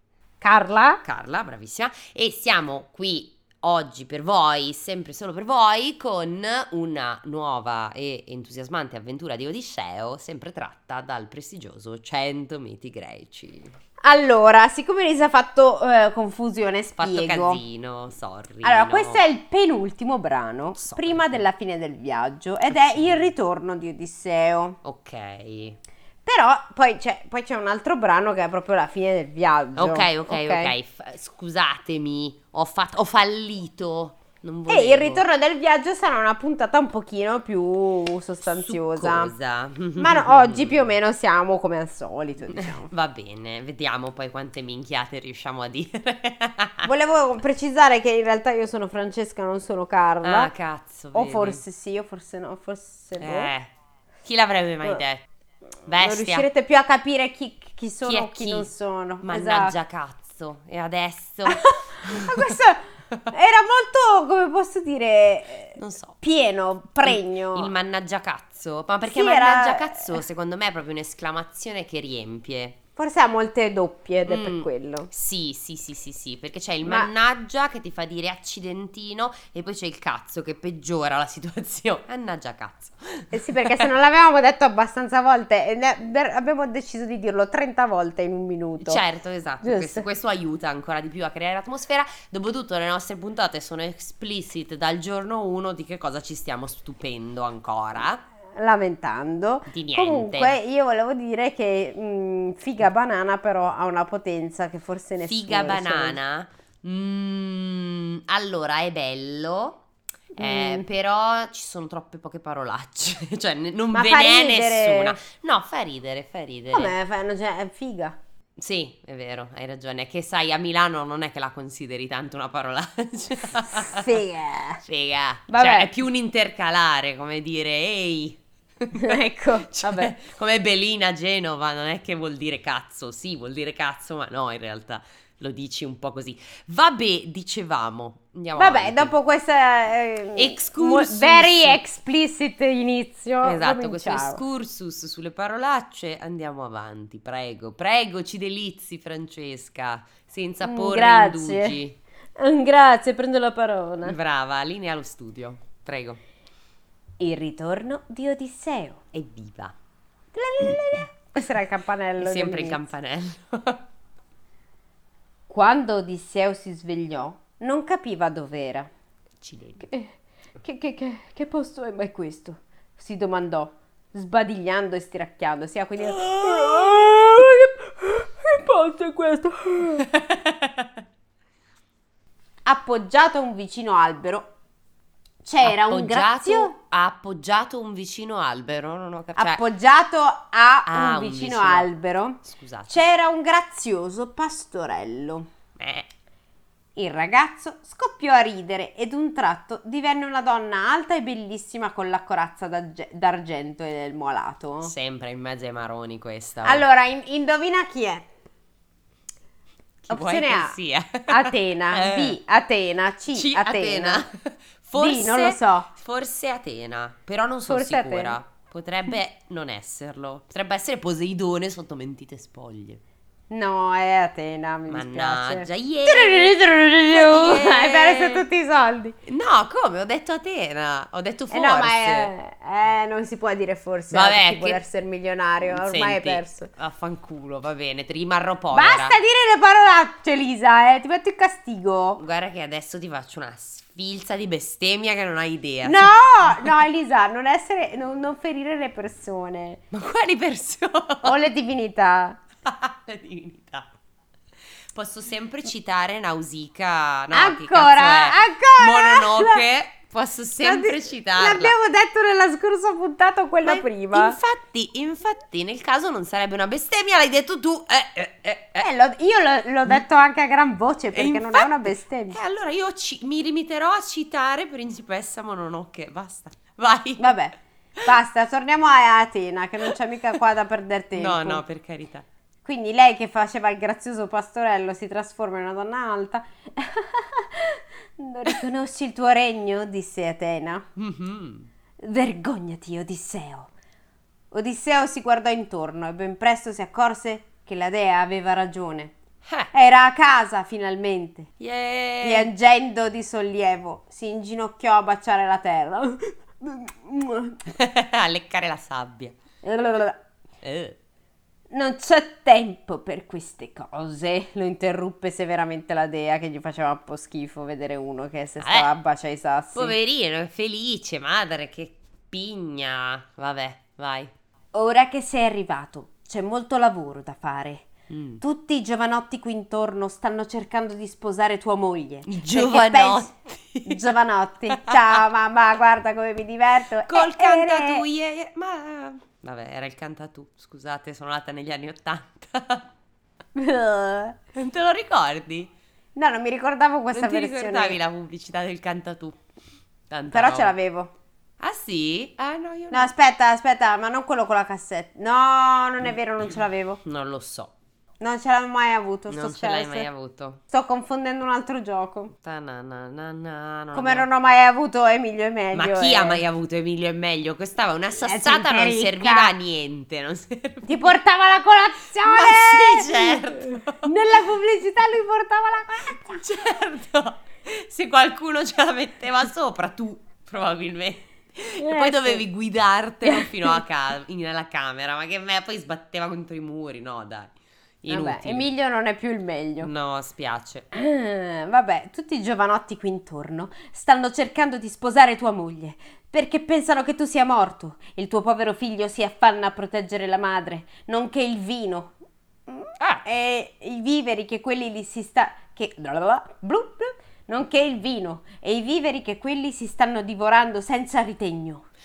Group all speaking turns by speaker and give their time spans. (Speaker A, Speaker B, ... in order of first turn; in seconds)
Speaker A: 0.4-1.0, 14.0-17.6, 18.6-24.8, 26.2-30.7, 34.7-39.3, 40.0-42.9, 46.8-50.5, 51.1-53.5, 55.9-59.7, 61.5-67.7, 69.0-70.2, 73.0-75.1, 76.8-77.1, 83.3-89.0, 89.6-90.0, 98.5-106.2, 110.3-110.8, 113.9-115.2, 116.7-118.2, 123.7-124.8, 125.5-125.9, 128.9-130.1, 138.6-144.4, 150.6-151.8, 152.4-154.2, 157.2-159.0, 160.3-162.8, 165.5-168.9, 169.8-180.1, 182.7-184.5, 185.4-186.7, 189.4-195.5, 196.9-204.9, 206.6-208.2, 210.1-210.8, 211.3-214.2, 214.9-215.9, 217.7-218.4, 223.5-229.2, 231.5-236.7, 238.7-242.2, 245.8-249.8, 251.2-252.4, 257.3-259.6, 260.6-264.4, 268.8-272.4, 277.2-281.6, 282.6-290.9, 292.0-293.7, 294.5-299.1, 299.7-301.5, 302.2-307.6, 309.6-310.2, 311.7-319.9, 324.7-327.9, 328.4-333.3, 333.8-338.0, 343.5-344.4, 346.1-348.0, 350.3-351.1, 352.9-357.0, 358.2-360.1, 360.7-362.3, 363.9-366.4, 368.2-369.5, 370.9-376.4, 381.8-382.4, 383.2-383.8, 388.1-389.9, 390.9-411.9
Speaker B: 1.0-13.7, 17.0-19.2, 20.8-21.4, 22.7-23.3, 24.8-25.8, 29.8-35.2, 38.5-40.9, 42.5-46.9, 50.2-51.6, 53.2-53.7, 54.2-55.2, 55.9-56.5, 58.0-58.7, 59.2-62.6, 65.8-66.2, 67.0-72.8, 74.2-83.9, 88.8-98.2, 99.7-100.6, 105.2-109.8, 110.4-116.9, 118.6-124.2, 124.8-139.1, 140.3-141.8, 143.4-152.0, 154.0-156.2, 159.1-159.8, 162.2-163.8, 169.4-169.8, 176.1-177.0, 180.1-180.9, 185.6-189.6, 190.8-191.9, 192.4-193.0, 195.8-196.1, 204.8-206.8, 210.0-212.4, 213.3-223.0, 224.9-226.6, 227.1-228.4, 229.2-232.3, 234.1-234.8, 235.7-239.2, 242.2-246.7, 249.9-251.3, 252.6-253.9, 254.9-261.7, 263.6-268.9, 271.1-277.4, 281.1-282.2, 290.9-291.7, 299.4-299.7, 301.6-302.5, 307.7-309.4, 310.6-311.0, 318.6-318.9, 319.7-324.3, 328.1-328.4, 332.2-334.1, 334.7-335.2, 337.1-342.9, 344.5-345.7, 347.1-349.4, 350.1-350.7, 351.6-353.1, 357.0-357.7, 359.3-360.6, 362.4-364.3, 365.7-371.2, 372.2-374.1, 376.2-388.7, 389.8-390.9, 403.0-403.2